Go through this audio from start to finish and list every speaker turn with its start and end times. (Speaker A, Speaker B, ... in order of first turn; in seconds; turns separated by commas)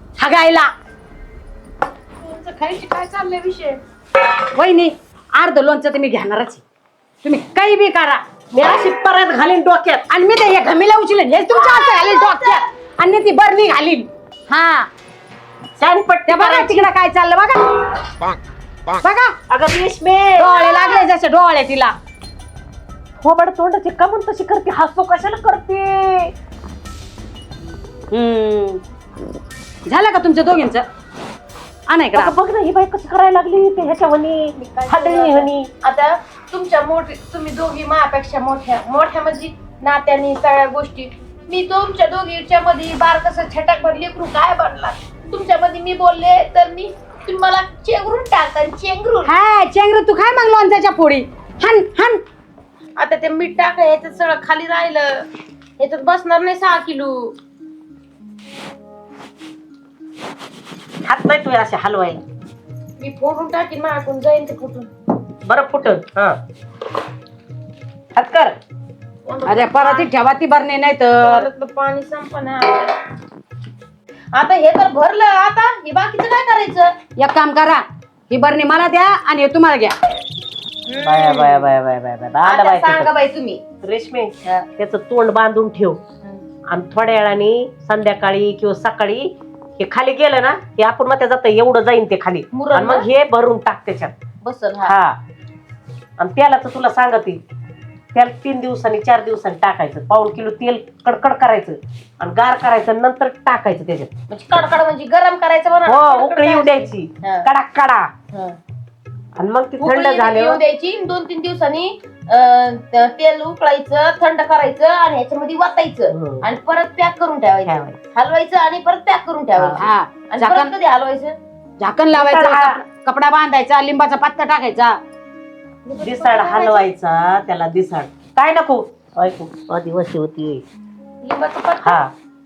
Speaker A: 0.2-0.7, Speaker B: 2.2-3.8, Speaker A: 4.5-6.6, Speaker A: 7.2-8.2, Speaker C: 8.5-10.1, Speaker A: 10.1-14.9, Speaker B: 11.6-12.6, Speaker C: 15.8-16.9, Speaker A: 16.3-17.7, Speaker A: 19.0-19.3, Speaker C: 19.5-21.1, Speaker A: 20.4-22.0, Speaker C: 23.2-26.3, Speaker A: 28.1-28.8, Speaker A: 29.9-30.9, Speaker A: 31.9-32.3, Speaker C: 32.1-35.7, Speaker B: 34.6-49.3, Speaker A: 49.2-52.2, Speaker B: 53.0-55.3, Speaker B: 55.8-57.4, Speaker C: 61.1-62.2, Speaker B: 63.0-64.9, Speaker C: 65.5-66.4, Speaker C: 68.2-68.5, Speaker B: 69.3-70.1, Speaker A: 69.5-71.5, Speaker B: 71.3-73.0, Speaker B: 74.3-77.0, Speaker A: 77.2-80.0, Speaker B: 80.9-81.7, Speaker C: 81.0-83.1, Speaker B: 82.4-83.6, Speaker C: 83.8-86.0, Speaker C: 86.7-94.1, Speaker B: 92.5-93.1, Speaker B: 94.4-94.9, Speaker C: 94.8-95.2, Speaker C: 96.2-97.4, Speaker C: 98.2-104.1, Speaker B: 104.3-107.5, Speaker C: 105.9-108.1, Speaker B: 108.3-108.6, Speaker C: 109.4-110.6, Speaker B: 109.8-121.4, Speaker C: 116.1-116.5, Speaker C: 117.7-118.0, Speaker C: 119.6-119.8, Speaker A: 119.8-120.7, Speaker A: 121.8-125.0, Speaker C: 122.1-122.8, Speaker B: 125.9-126.9, Speaker C: 126.0-130.6, Speaker B: 131.2-132.1, Speaker C: 131.8-132.1